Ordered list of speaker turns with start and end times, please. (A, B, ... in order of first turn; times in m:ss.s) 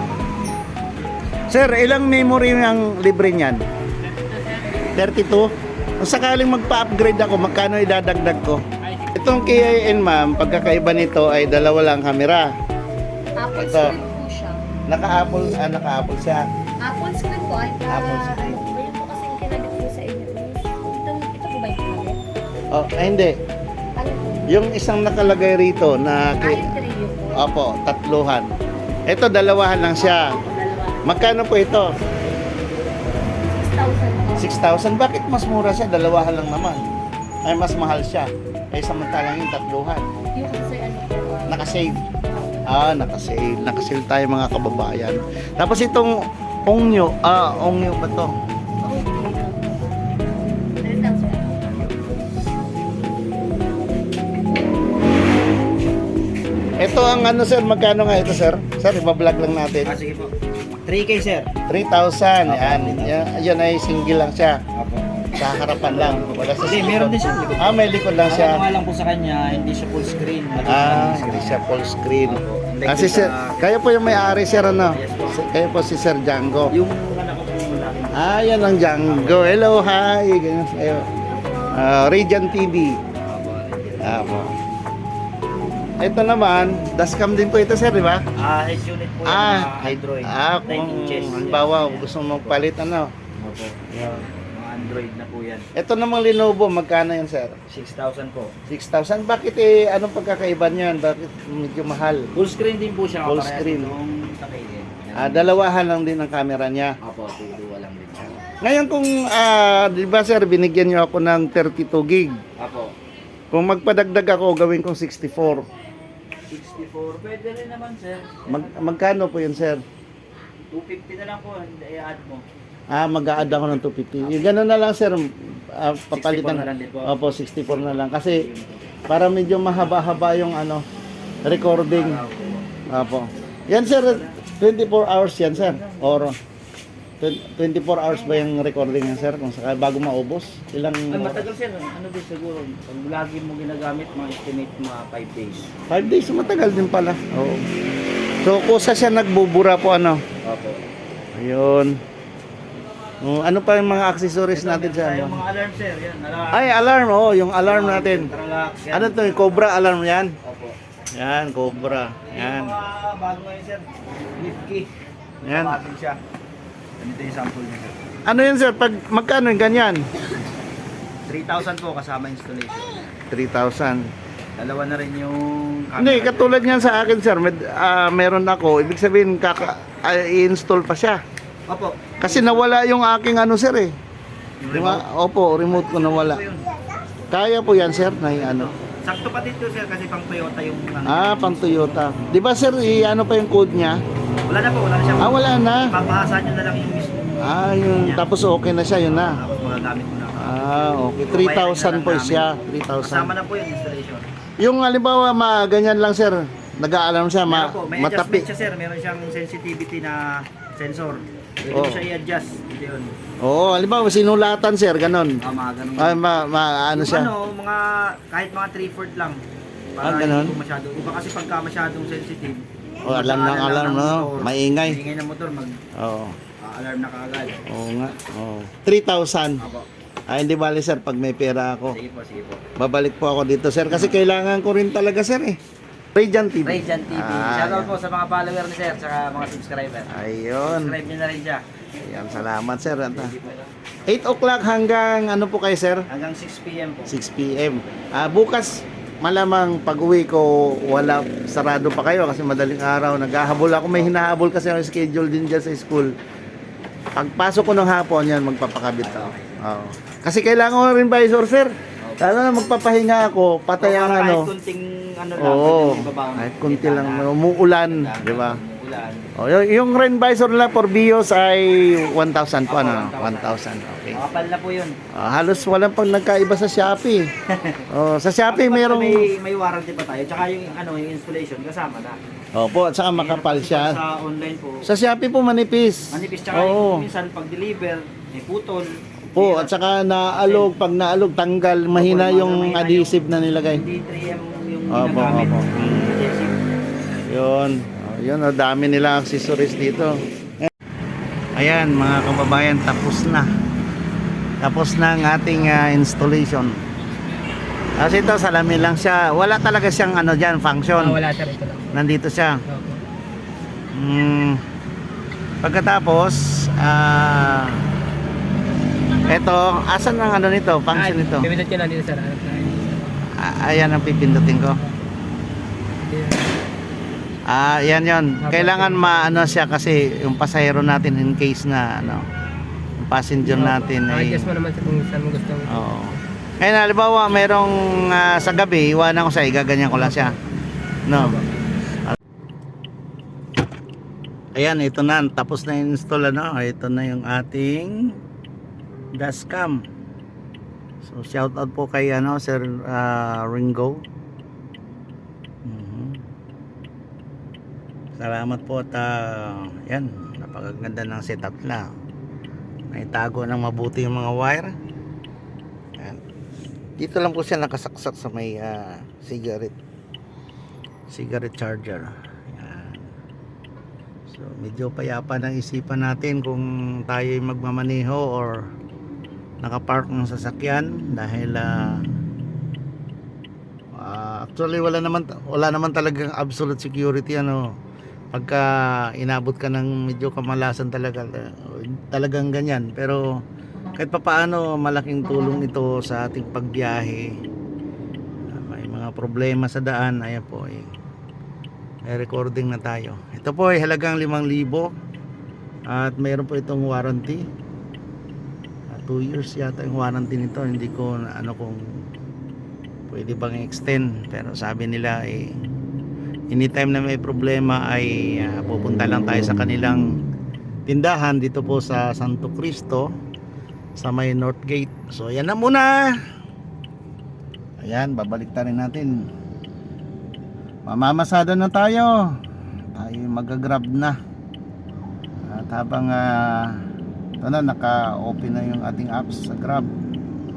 0:01.5-0:03.6 A
0:04.0-0:04.8 B
0:04.9-0:08.6 A
0:08.8-0:09.3 B
0:09.1-0:12.5 A
0:13.3-0:14.6 C
0:13.5-0:14.0 A
0:14.9-0:16.4 A
0:16.8-0:22.2 C
0:17.9-0:18.6 A
0:22.7-0:23.4 A
0:24.0-0:24.5 C
0:24.5-0:28.5 A
0:26.4-0:27.5 C
0:29.1-0:30.3 A
0:30.0-0:31.2 C
0:31.0-0:31.9 A
0:33.5-0:34.5 C
0:34.4-0:36.8 A
0:37.4-0:40.0 A
0:40.3-0:41.8 C
0:41.5-0:41.9 A
0:42.7-0:46.1 A
0:46.6-0:48.3 A
0:48.8-0:51.7 C
0:56.8-0:59.9 A
0:59.8-1:00.3 D
1:00.8-1:01.5 D
1:01.7-1:04.6 A
1:02.4-1:03.3 D
1:04.7-1:11.6 D
1:05.3-1:08.6 A
1:10.6-1:16.7 A
1:12.2-1:15.4 D
1:16.7-1:19.7 D
1:18.2-1:21.1 A
1:21.3-1:21.8 C
1:21.7-1:23.0 A
1:23.2-1:24.5 D
1:24.0-1:24.5 A
1:26.0-1:28.2 A
1:28.4-1:32.7 D
1:29.2-1:33.1 A
1:33.4-1:33.8 D
1:33.9-1:34.3 A
1:34.5-1:35.7 D
1:35.7-1:37.6 A
1:37.7-1:38.5 D
1:38.7-1:42.2 A
1:42.3-1:45.6 D
1:43.2-1:44.0 A
1:45.2-1:46.9 A
1:47.0-1:48.4 D
1:48.5-1:52.3 A
1:52.6-1:52.9 D
1:53.5-1:55.6 A
1:56.5-1:58.4 D
1:58.5-1:59.8 A
2:00.7-2:02.4 D
2:02.9-2:05.2 A
2:03.4-2:04.5 D
2:05.8-2:08.4 A
2:06.1-2:09.0 D
2:09.1-2:10.8 A
2:11.4-2:12.2 A
2:11.8-2:12.7 D
2:12.9-2:16.3 A
2:13.7-2:14.4 D
2:15.5-2:16.3 D
2:17.2-2:21.5 A
2:21.1-2:25.7 D
2:25.9-2:27.6 A
2:28.4-2:30.2 A
2:30.4-2:30.8 D
2:31.3-2:32.0 A
2:33.2-2:35.4 A
2:34.5-2:36.6 D
2:36.5-2:38.3 A
2:37.6-2:39.7 D
2:38.9-2:40.3 A
2:40.4-2:40.8 D
2:41.1-2:42.8 A
2:42.3-2:44.9 D
2:45.4-2:46.2 D
2:45.4-2:45.8 A
2:47.0-2:48.0 D
2:48.2-2:50.0 A
2:51.3-2:53.0 D
2:53.3-2:54.1 A
2:54.6-2:57.0 D
2:56.0-3:01.2 A
3:01.7-3:02.6 D
3:02.2-3:03.9 A
3:04.6-3:05.0 D
3:04.7-3:06.4 A
3:05.6-3:06.7 D
3:07.3-3:08.7 A
3:08.2-3:12.1 D
3:11.0-3:14.0 A
3:14.5-3:18.3 D
3:15.2-3:15.9 A
3:17.4-3:19.4 A
3:19.0-3:24.2 D
3:20.4-3:23.4 A
3:24.6-3:28.5 A
3:27.4-3:33.1 D
3:31.7-3:32.1 A
3:33.4-3:35.3 A
3:35.4-3:36.2 D
3:36.0-3:37.3 A
3:36.9-3:39.4 D
3:40.0-3:45.8 D
3:40.0-3:40.6 A
3:43.0-3:45.0 A
3:46.0-3:46.4 A
3:46.6-3:47.6 D
3:47.7-3:49.6 A
3:49.6-3:49.9 D
3:50.3-3:52.0 A
3:51.9-3:52.6 D
3:52.8-3:55.6 A
3:53.9-3:54.2 D
3:56.1-3:57.9 A
3:56.6-4:01.6 D
4:00.1-4:01.0 A
4:02.0-4:03.3 A
4:03.1-4:03.7 D
4:04.0-4:06.0 A
4:06.1-4:07.1 D
4:07.1-4:16.1 A
4:13.6-4:14.4 D
4:17.2-4:24.5 A
4:19.0-4:19.6 D
4:22.0-4:22.3 D
4:23.8-4:29.3 D
4:25.4-4:28.6 A
4:29.4-4:34.2 A
4:32.7-4:33.5 D
4:34.1-4:35.0 D
4:35.1-4:37.3 A
4:37.5-4:37.8 D
4:37.9-4:39.3 A
4:38.5-4:42.2 D
4:42.5-4:44.0 A
4:43.1-4:44.9 D
4:44.8-4:47.0 A
4:46.1-4:50.7 D
4:49.3-4:53.8 A
4:51.9-4:56.5 D
4:54.9-4:56.2 A
4:57.3-5:00.7 A
5:01.5-5:03.5 A
5:04.6-5:06.8 A
5:08.0-5:11.2 A
5:10.9-5:11.9 B
5:11.9-5:12.6 A
5:12.7-5:13.0 B
5:13.9-5:14.6 A
5:15.6-5:17.8 A
5:19.2-5:21.5 A
5:20.9-5:23.1 B
5:23.3-5:24.8 A
5:26.0-5:26.5 B
5:27.5-5:32.3 A
5:28.4-5:29.6 B
5:33.0-5:34.6 A
5:33.4-5:36.0 B
5:35.7-5:40.4 A
5:41.1-5:41.4 A
5:44.6-5:48.2 A
5:49.2-5:49.8 A
5:51.0-5:54.0 A
5:55.6-5:56.2 A
5:58.1-6:01.9 A
6:02.9-6:04.7 A
6:07.0-6:09.7 A
6:11.1-6:13.0 A
6:14.3-6:18.6 A
6:19.6-6:22.0 A
6:24.0-6:27.7 A
6:28.3-6:33.4 A
6:33.9-6:37.3 A
6:38.5-6:40.9 A
6:42.0-6:44.9 A
6:45.9-6:47.4 A
6:48.9-6:51.8 A
6:53.1-6:55.6 A
6:56.5-7:00.0 A
7:00.8-7:03.1 A
7:04.0-7:06.2 A
7:07.8-7:09.3 A
7:10.8-7:12.3 A
7:12.9-7:14.2 A
7:15.4-7:16.8 A
7:17.4-7:19.9 A